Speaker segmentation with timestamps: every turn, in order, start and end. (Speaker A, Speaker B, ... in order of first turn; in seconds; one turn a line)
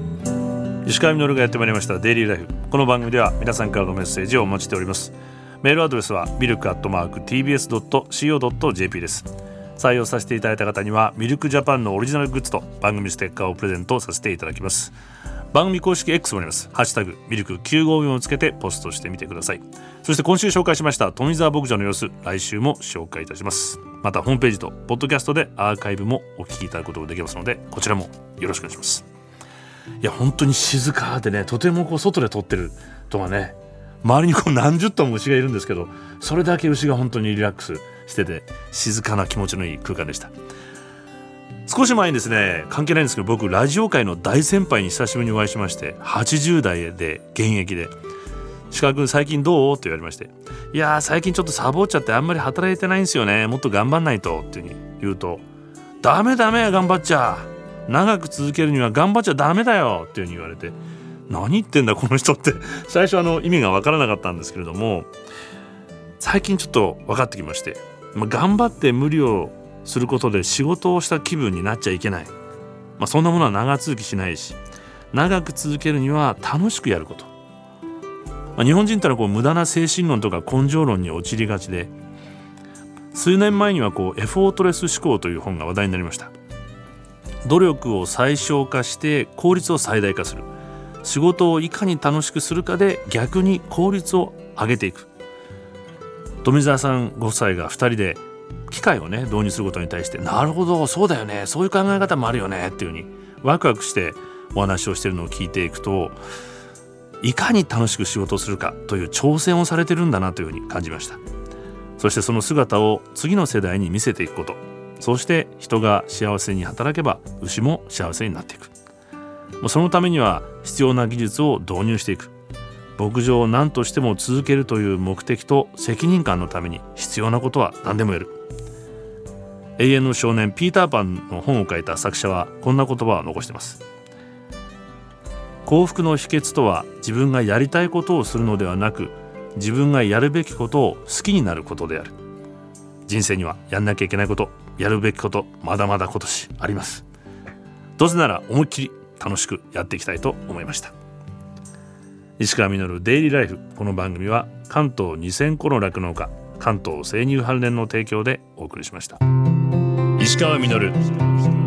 Speaker A: 0.8-14.9
Speaker A: 15.5-29.1
Speaker A: 30.0-40.3
Speaker A: 41.7-47.9
Speaker A: 48.7-55.4
Speaker A: 56.0-60.8
Speaker A: 61.3-65.1
Speaker A: 66.2-72.3
Speaker A: 73.0-74.6
Speaker A: 75.1-77.3
Speaker A: 78.6-81.9
Speaker A: 83.1-86.3
Speaker A: 87.4-90.5
Speaker A: 91.0-95.1
Speaker A: 96.4-106.2
Speaker A: 107.2-111.2
Speaker A: 112.0-118.7
Speaker A: 119.6-122.3
Speaker A: 123.0-128.4
Speaker A: 129.8-133.8
Speaker A: 135.6-142.1
Speaker A: 143.1-147.1
Speaker A: 148.0-150.9
Speaker A: 152.4-159.2
Speaker A: 160.2-161.3